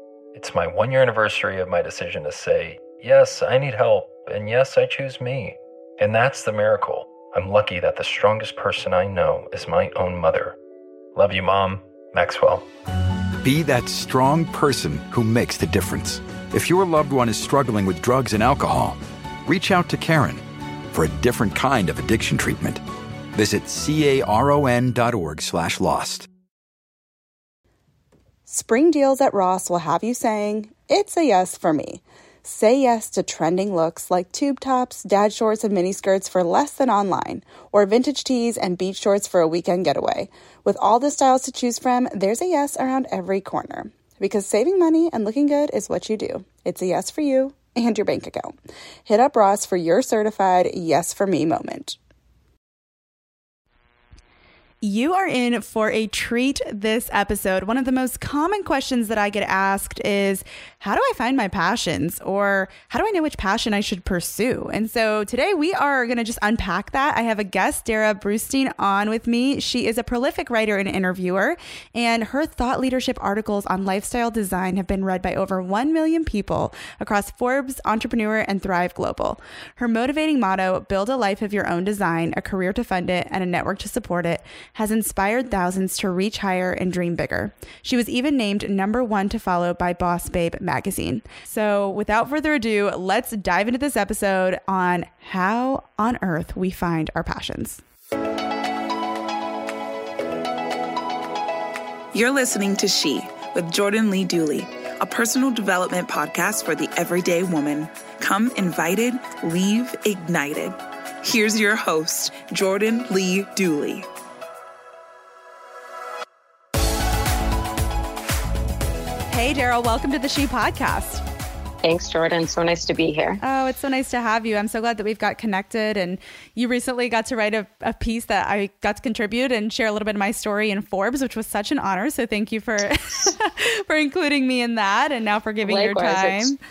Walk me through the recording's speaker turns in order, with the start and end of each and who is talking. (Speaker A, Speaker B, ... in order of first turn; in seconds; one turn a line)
Speaker A: 0.3-10.6
Speaker A: 11.1-12.7
Speaker B: 13.4-20.4
Speaker B: 20.9-22.8
Speaker B: 23.3-26.3
Speaker C: 28.5-48.5
Speaker C: 49.1-52.0
Speaker C: 54.8-97.8
Speaker D: 102.1-114.1
Speaker C: 119.3-121.2
Speaker E: 121.8-123.4
Speaker C: 123.4-136.6
Speaker E: 135.6-136.5